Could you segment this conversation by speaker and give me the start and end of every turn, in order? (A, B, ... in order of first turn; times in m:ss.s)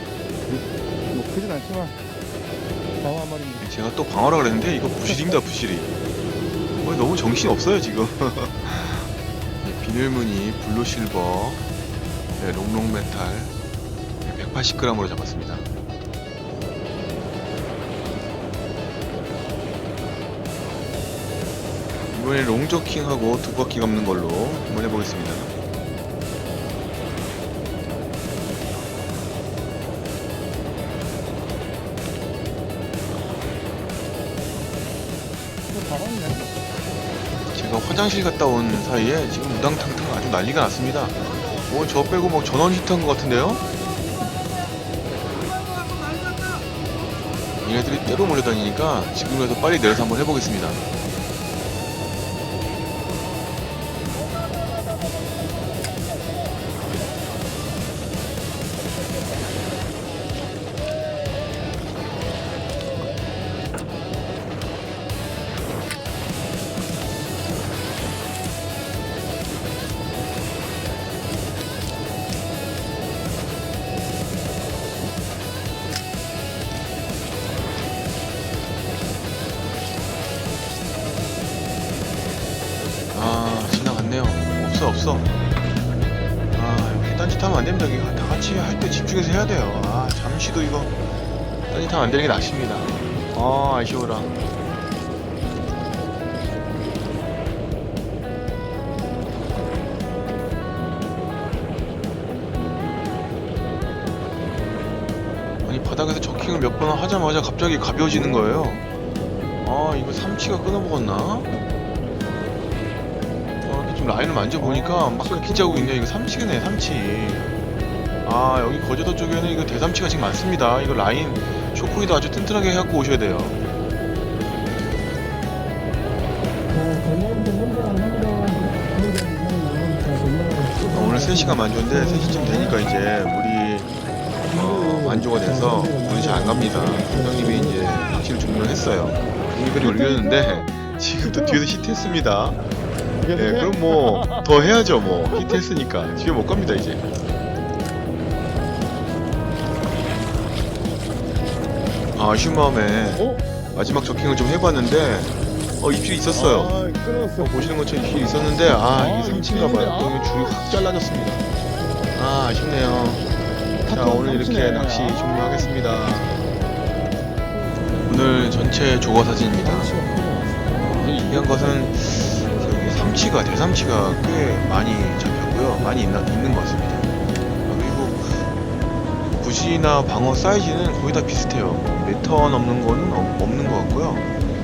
0:00.5-0:02.0 A
0:03.0-0:03.6 A
0:03.6-0:05.9 B
0:05.0-0:05.4 A
0:06.7-0:09.1 B
0:09.6-0:11.6 B
0:12.4-0:13.5 B
0:14.2-0:15.7 B
0:22.1-0:25.5 B
0:35.7-0:36.5 A
0:37.5-0:43.7 B
0:47.6-0:50.8 B
1:23.1-1:25.3 B
1:26.5-1:31.0 B
1:31.7-1:34.3 B
1:45.6-1:48.8 B
1:49.6-1:51.5 B
1:53.6-1:57.5 B
1:54.6-1:56.0 A
1:58.2-2:03.6 B
2:07.1-2:10.9 A
2:10.9-2:13.9 B
2:11.9-2:12.6 A
2:14.5-2:22.6 B
2:14.5-2:17.3 A
2:19.8-2:20.7 A
2:21.2-2:21.6 A
2:23.2-2:24.7 A
2:23.3-2:27.0 B
2:32.2-2:36.8 B
2:33.2-2:33.4 A
2:36.3-2:37.8 A
2:37.4-2:41.4 B
2:38.9-2:40.8 A
2:42.1-2:43.3 B
2:43.8-2:45.7 A
2:43.9-2:46.5 B
2:48.0-2:49.9 B
2:49.6-2:51.7 A
2:50.7-2:57.1 B
2:57.7-2:58.5 B
2:59.4-3:04.3 B